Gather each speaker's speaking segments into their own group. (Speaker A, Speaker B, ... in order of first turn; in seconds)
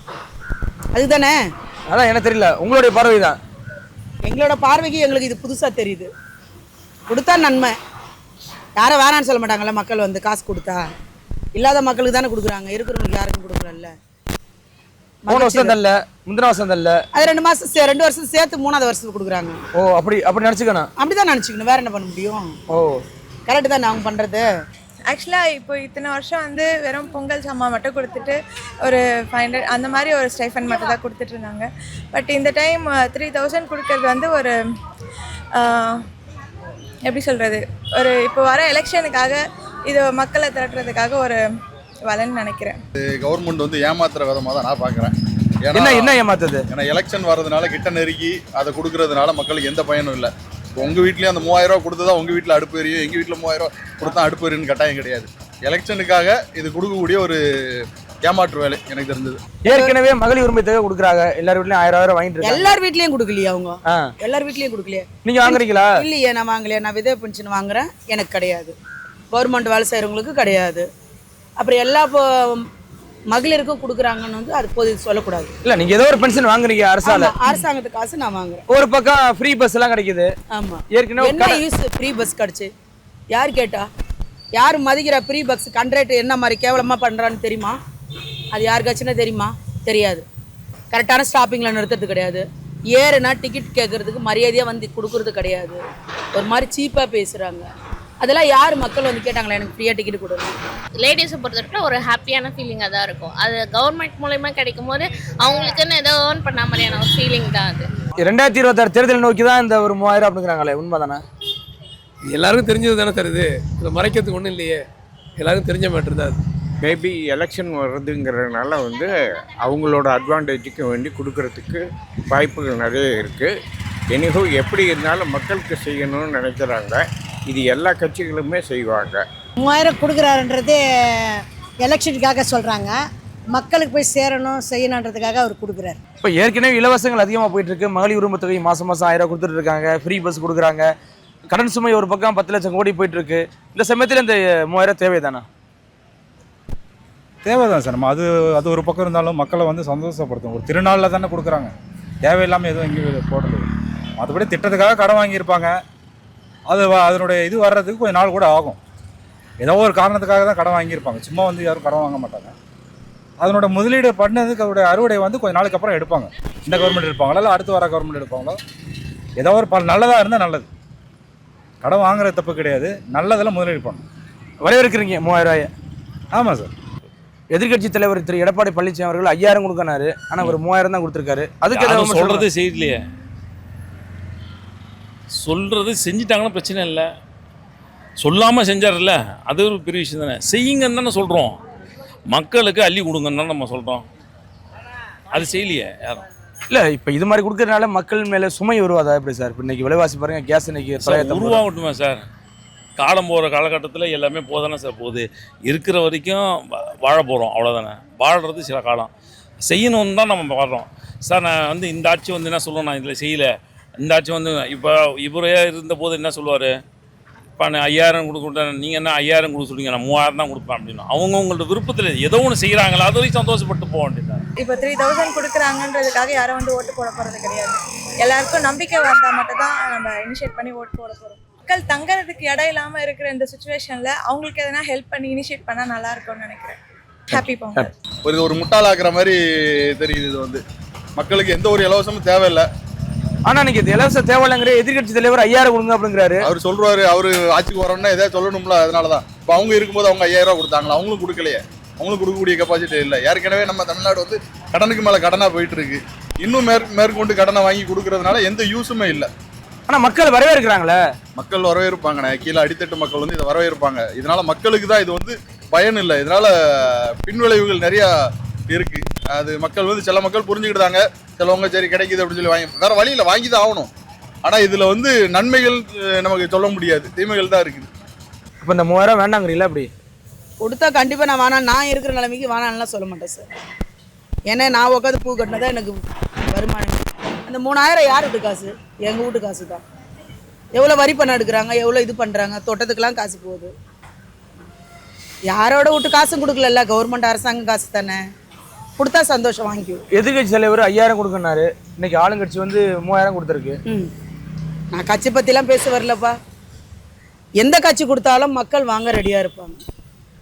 Speaker A: 0.9-1.4, 4.2-6.1, 7.1-7.8, 8.8-10.8, 11.5-13.9, 15.2-15.7, 17.1-19.6, 21.0-22.5, 23.5-24.5, 59.7-59.9, 62.4-68.7, 69.3-70.8, 71.6-72.6, 73.3-75.5, 77.0-78.6, 80.5-82.7, 83.3-83.9, 84.5-87.8, 88.5-90.2, 90.9-95.8, 96.3-97.7, 98.2-100.5, 280.6-283.4, 284.5-286.0, 286.5-289.8, 290.7-293.7, 295.5-298.2, 299.0-300.0, 304.9-306.3, 307.6-309.8
Speaker B: 1.9-3.4, 15.3-17.0, 19.7-20.9, 22.7-23.0, 45.7-46.6, 59.6-62.8, 65.2-66.0, 75.6-77.3, 78.7-80.3, 80.9-81.6, 108.2-111.2, 136.2-140.9, 141.5-145.4, 174.6-175.7, 177.5-182.4, 196.7-201.6, 237.3-237.9, 243.4-246.5, 259.9-261.0, 278.6-279.9, 300.1-303.8
Speaker C: 25.1-34.6, 35.5-35.9, 37.0-41.4, 42.1-42.8, 224.6-236.8, 237.3-237.9
Speaker D: 43.0-46.1, 46.7-57.4, 58.2-59.4, 238.2-239.4, 239.9-240.6, 241.2-242.7, 246.4-259.3, 261.4-268.1, 268.7-273.9, 274.4-277.9
Speaker E: 101.0-107.9
Speaker F: 112.4-114.8, 115.4-116.4
Speaker G: 116.8-123.5, 124.1-129.2
Speaker H: 129.6-133.0, 133.5-136.0
Speaker I: 147.4-151.7, 152.2-153.7, 154.2-155.7, 156.7-158.8, 159.6-162.5, 163.4-168.6, 169.4-170.7, 171.8-174.0, 176.3-176.7
Speaker J: 181.7-183.0, 185.4-187.1, 188.2-191.5, 192.3-194.0, 195.3-196.2, 201.0-202.2, 203.0-206.4, 207.0-209.1, 209.7-216.7, 217.6-224.4